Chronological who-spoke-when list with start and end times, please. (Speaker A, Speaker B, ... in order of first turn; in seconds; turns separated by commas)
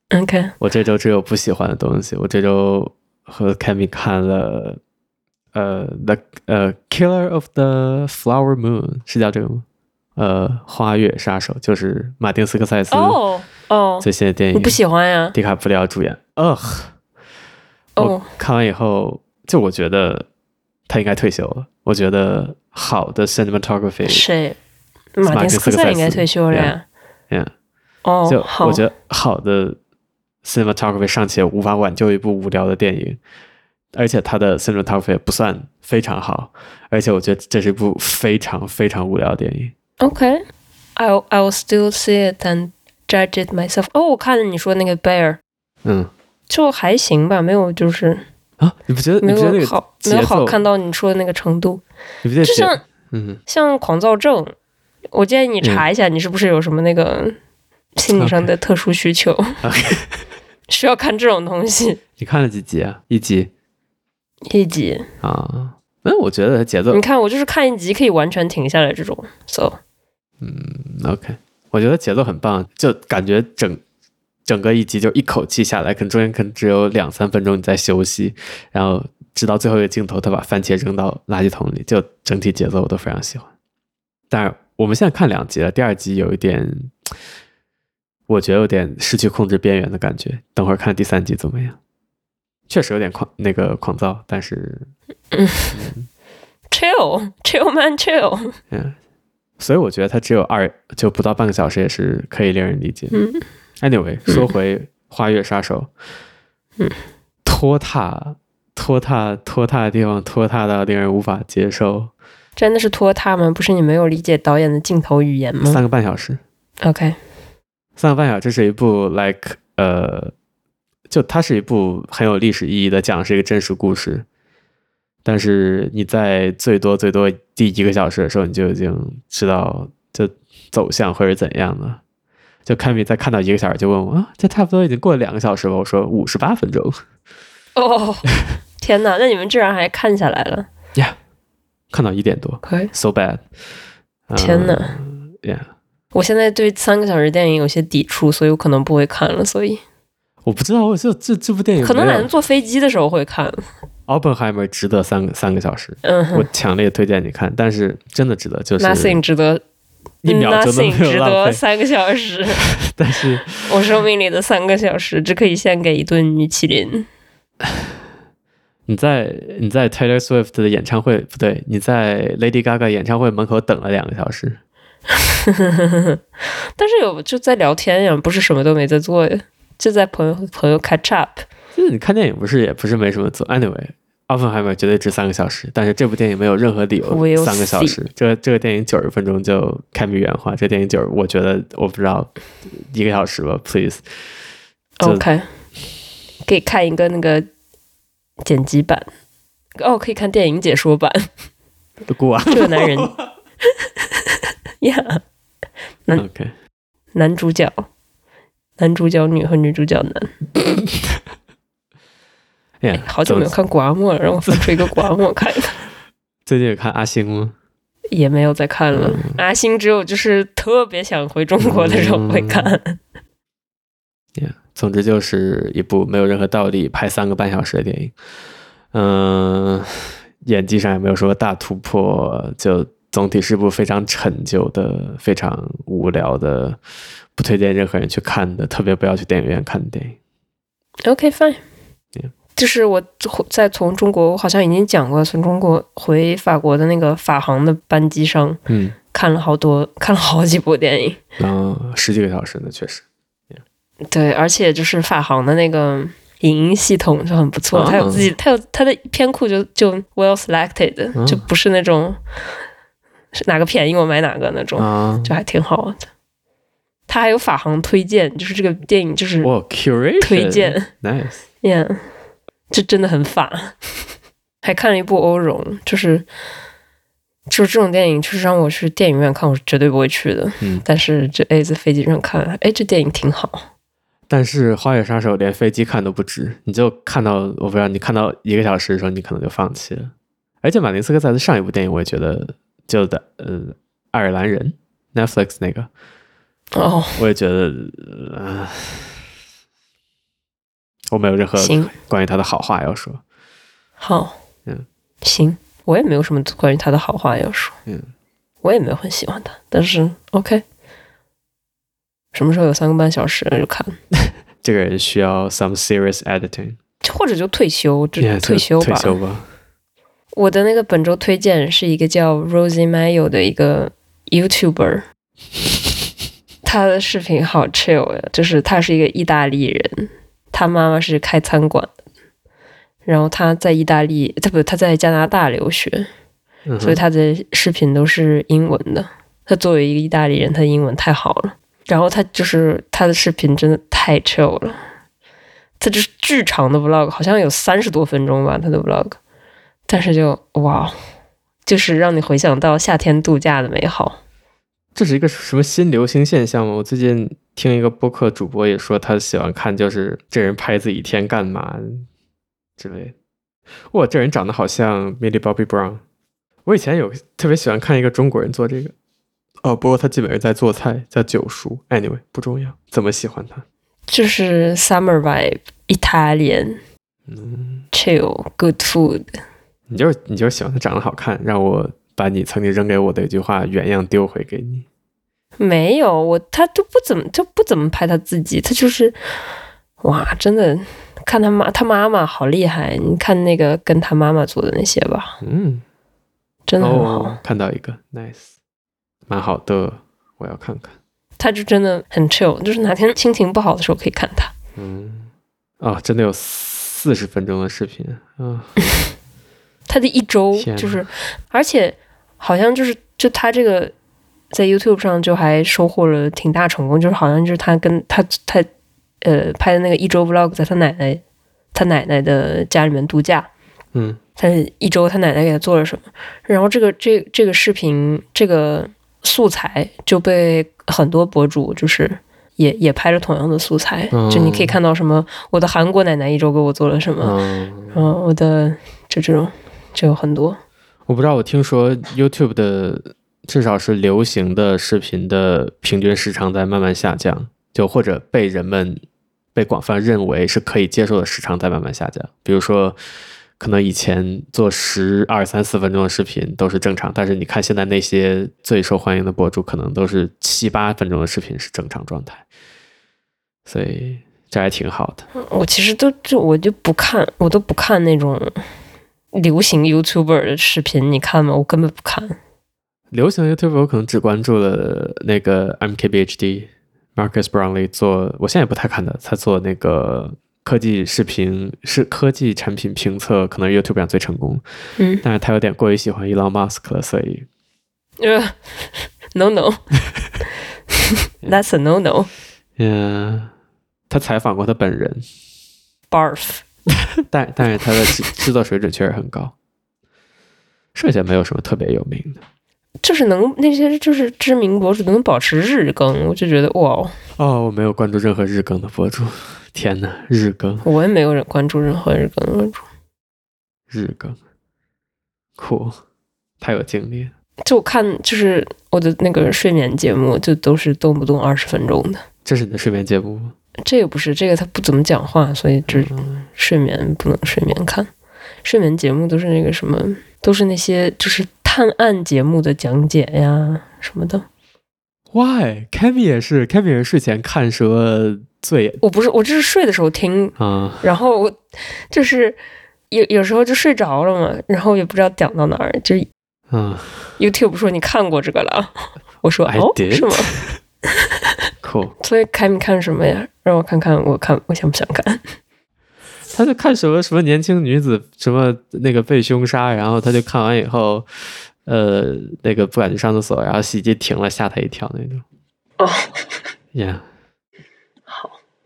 Speaker A: 0.1-0.6, Speaker B: 0.6-4.8, Speaker B: 5.5-9.7, Speaker B: 10.2-13.2, Speaker A: 12.9-15.4, Speaker B: 14.0-14.8, Speaker B: 15.3-16.9, Speaker A: 18.0-18.3, Speaker B: 18.0-20.3, Speaker B: 20.9-24.2, Speaker A: 24.1-24.6, Speaker A: 25.2-26.8, Speaker B: 25.3-26.7, Speaker A: 28.1-28.9, Speaker B: 28.3-29.8, Speaker B: 30.4-33.2, Speaker B: 33.9-39.7, Speaker A: 40.0-40.4, Speaker A: 41.0-45.4, Speaker B: 45.9-46.1, Speaker A: 46.5-48.2, Speaker B: 48.6-50.6, Speaker A: 49.2-51.8, Speaker B: 52.2-53.4, Speaker A: 52.4-52.8, Speaker A: 53.5-54.5, Speaker A: 55.1-57.4, Speaker A: 58.0-59.6, Speaker B: 58.1-58.5, Speaker B: 59.6-60.2, Speaker A: 60.7-62.0, Speaker B: 62.2-63.5, Speaker A: 64.5-65.1, Speaker B: 65.2-67.0, Speaker A: 66.9-69.8, Speaker B: 70.4-73.8, Speaker B: 74.5-83.5, Speaker B: 84.3-87.1, Speaker B: 88.3-91.8, Speaker B: 92.7-94.9, Speaker A: 95.3-95.8, Speaker B: 95.7-96.1, Speaker A: 96.7-98.5, Speaker B: 98.7-99.0, Speaker B: 99.6-103.2, Speaker A: 103.1-103.5, Speaker B: 103.8-105.9, Speaker A: 104.3-104.5, Speaker B: 107.5-112.1, Speaker A: 112.6-115.8, Speaker B: 115.7-116.4, Speaker A: 116.8-117.2, Speaker B: 118.0-120.3, Speaker B: 121.1-124.2, Speaker B: 125.2-132.0, Speaker B: 132.7-137.0, Speaker A: 137.8-140.7, Speaker B: 141.9-143.4, Speaker A: 142.6-142.9, Speaker B: 144.3-145.7, Speaker A: 144.4-145.0, Speaker A: 146.1-149.8, Speaker B: 150.4-152.3, Speaker A: 151.8-153.7, Speaker B: 154.1-159.2, Speaker A: 156.0-156.5, Speaker A: 158.8-159.6, Speaker B: 160.2-161.6, Speaker A: 160.2-162.6, Speaker B: 162.5-163.9, Speaker A: 163.7-167.1, Speaker B: 168.9-174.6, Speaker A: 175.1-176.2, Speaker A: 176.8-181.4, Speaker B: 181.8-194.0, Speaker A: 187.1-188.0, Speaker A: 195.0-195.5, Speaker A: 196.4-197.5, Speaker A: 198.4-199.1, Speaker A: 199.8-201.3, Speaker B: 202.1-203.2, Speaker A: 202.5-205.2, Speaker B: 206.2-206.5, Speaker A: 207.1-207.9, Speaker A: 208.8-210.3, Speaker B: 210.7-211.2, Speaker B: 212.8-213.5, Speaker A: 213.0-215.8, Speaker B: 214.5-215.1, Speaker B: 216.5-217.5, Speaker A: 218.1-223.0, Speaker B: 218.9-219.4, Speaker B: 221.6-222.8, Speaker B: 224.4-228.1, Speaker B: 228.9-236.8, Speaker B: 237.4-240.2, Speaker A: 241.0-241.6, Speaker A: 242.6-248.6, Speaker B: 248.7-249.0, Speaker A: 249.1-251.2, Speaker B: 251.4-253.6, Speaker A: 254.1-262.2, Speaker B: 257.7-258.3, Speaker B: 261.1-261.5, Speaker A: 263.3-266.1, Speaker B: 264.8-265.4, Speaker A: 267.1-269.5, Speaker B: 269.4-271.4, Speaker A: 270.2-270.9, Speaker A: 271.6-272.0, Speaker A: 272.7-274.0, Speaker A: 274.6-276.3, Speaker A: 277.5-283.6, Speaker B: 284.3-295.9, Speaker A: 296.7-297.2, Speaker B: 297.2-299.2, Speaker B: 301.1-303.2, Speaker A: 301.6-301.9, Speaker A: 304.0-304.4, Speaker A: 305.2-307.8, Speaker A: 308.6-310.6, Speaker A: 312.3-313.9, Speaker B: 314.1-316.8, Speaker A: 317.0-319.2, Speaker B: 318.2-319.5, Speaker A: 320.3-325.0, Speaker A: 326.6-331.9, Speaker A: 333.1-336.1, Speaker B: 336.7-337.0, Speaker A: 336.8-344.8, Speaker A: 345.8-349.2, Speaker A: 349.9-350.9, Speaker A: 351.7-354.2, Speaker B: 354.9-362.1, Speaker B: 362.8-363.1, Speaker B: 363.9-366.0, Speaker B: 366.7-368.9, Speaker B: 369.6-373.6, Speaker A: 374.1-376.8, Speaker B: 377.3-377.9, Speaker A: 377.9-379.3, Speaker B: 379.9-384.9, Speaker A: 385.6-389.2, Speaker A: 390.0-395.4, Speaker B: 395.4-395.8, Speaker A: 396.7-397.4, Speaker B: 396.8-398.5, Speaker B: 399.3-400.9, Speaker A: 401.4-404.5, Speaker B: 404.8-409.0, Speaker A: 409.9-413.9, Speaker B: 410.6-411.1, Speaker A: 414.5-418.7, Speaker A: 419.2-421.2, Speaker A: 421.7-423.5, Speaker B: 423.9-424.2, Speaker A: 424.4-437.4, Speaker B: 434.1-434.8, Speaker B: 437.2-438.1, Speaker A: 437.9-440.6, Speaker B: 441.1-449.0, Speaker B: 449.6-453.0, Speaker B: 453.6-462.4, Speaker B: 463.7-465.3, Speaker A: 465.4-468.6, Speaker A: 469.3-472.4, Speaker B: 473.1-484.6, Speaker A: 485.0-485.2, Speaker B: 485.2-487.5, Speaker A: 488.2-489.9, Speaker A: 490.9-492.3, Speaker B: 492.8-493.5, Speaker B: 494.1-495.2, Speaker A: 496.1-496.6, Speaker B: 497.3-499.5, Speaker B: 500.9-502.4, Speaker A: 503.0-507.1, Speaker B: 507.4-510.9, Speaker A: 510.8-512.8, Speaker B: 513.9-514.4, Speaker B: 515.6-516.0, Speaker B: 516.6-517.3, Speaker A: 517.6-522.2, Speaker B: 522.5-523.5, Speaker A: 523.8-528.1, Speaker B: 525.9-526.4, Speaker A: 528.6-534.5, Speaker B: 535.3-539.0, Speaker A: 539.0-542.6, Speaker B: 540.6-541.1, Speaker A: 543.1-546.3, Speaker B: 546.7-547.2, Speaker A: 547.4-550.5, Speaker B: 549.7-550.8, Speaker A: 551.1-551.5, Speaker B: 551.8-552.1, Speaker A: 552.2-555.4, Speaker B: 556.5-561.3, Speaker B: 561.9-565.4, Speaker A: 566.0-566.5, Speaker B: 566.9-567.2, Speaker A: 568.3-568.6